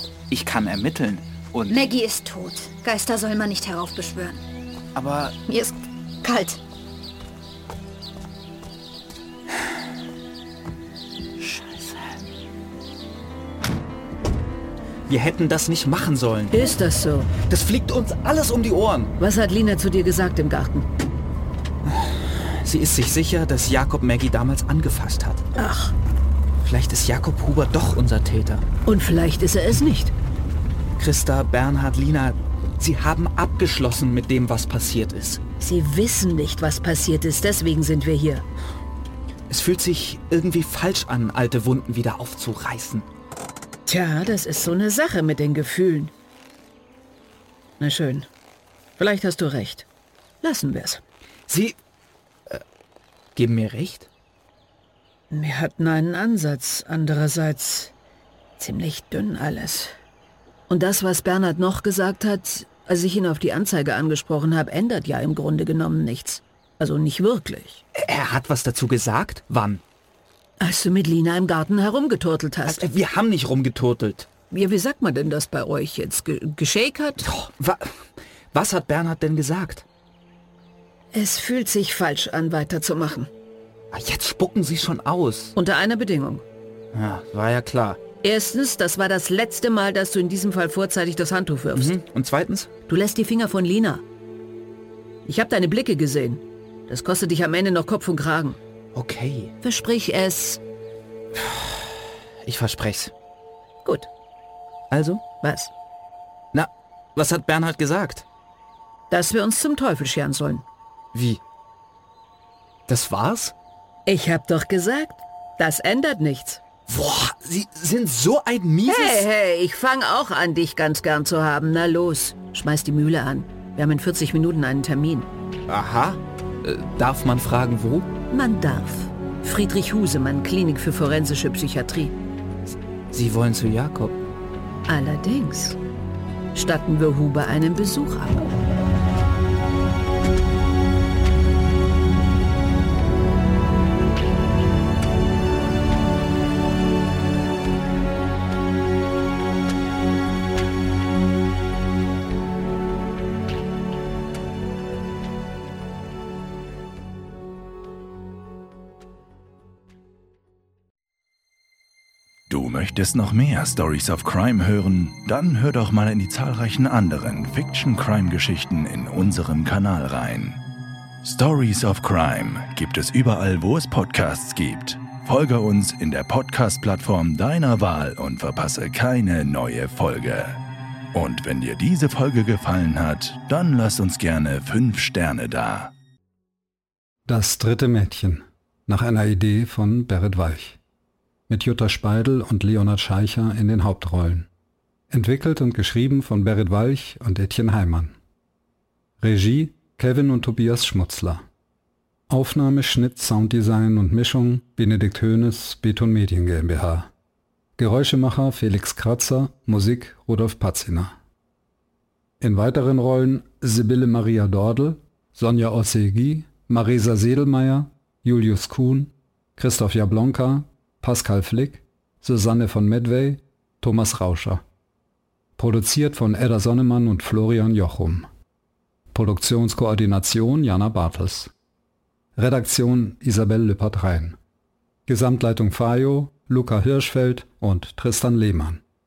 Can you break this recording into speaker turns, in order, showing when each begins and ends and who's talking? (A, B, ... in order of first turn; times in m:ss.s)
0:00.3-0:01.8 A
0:01.7-0:04.4 B
0:04.9-0:05.4 A
0:05.5-0:06.6 B
0:11.4-0:12.2 A
0:15.1-0:16.7 A
0:16.5-0:17.3 C
0:17.4-0:19.1 A
0:19.2-0:20.9 C
0:21.8-0:25.4 A
0:25.6-0:25.9 C
0:26.6-0:28.6 A
0:28.8-0:30.1 C
0:31.0-0:35.4 A
0:35.6-0:38.4 C
0:39.5-0:43.1 A
0:43.8-0:46.1 C
0:47.8-0:48.3 C
0:49.0-0:49.8 C
0:50.4-0:51.0 C
0:51.5-0:51.8 A
0:53.4-0:54.1 A
0:55.3-0:57.9 C
0:58.6-0:59.9 C
1:00.7-1:07.8 C
1:07.9-1:09.8 A
1:10.6-1:12.8 C
1:12.6-1:14.3 A
1:14.5-1:17.3 C
1:17.2-1:18.0 A
1:18.5-1:19.8 A
1:21.1-1:23.3 C
1:23.9-1:25.5 A
1:25.6-1:26.4 C
1:26.9-1:28.0 A
1:28.2-1:32.0 C
1:31.7-1:32.7 A
1:32.9-1:34.0 C
1:35.2-1:38.6 C
1:38.9-1:39.5 A
1:39.6-1:40.6 C
1:41.3-1:43.1 A
1:44.9-1:45.2 A
1:45.4-1:45.7 C
1:46.5-1:48.2 A
1:49.1-1:50.6 C
1:51.1-1:51.4 A
1:52.9-1:53.5 A
1:54.0-1:56.6 C
1:56.9-1:59.3 A
1:58.8-2:05.3 C
2:05.7-2:08.1 A
2:08.3-2:12.1 C
2:13.1-2:14.2 A
2:14.9-2:15.8 C
2:16.5-2:18.5 C
2:42.5-2:50.6 D
2:51.2-3:00.6 D
3:01.1-3:05.9 D
3:07.2-3:10.8 E
3:11.5-3:14.5 E
3:15.1-3:18.2 E
3:19.2-3:21.4 E
3:22.3-3:27.1 E
3:27.8-3:31.2 E
3:32.4-3:44.6 E
3:45.6-3:48.3 E
3:49.1-3:51.5 E
3:52.4-3:54.4 E
3:55.1-3:58.8 E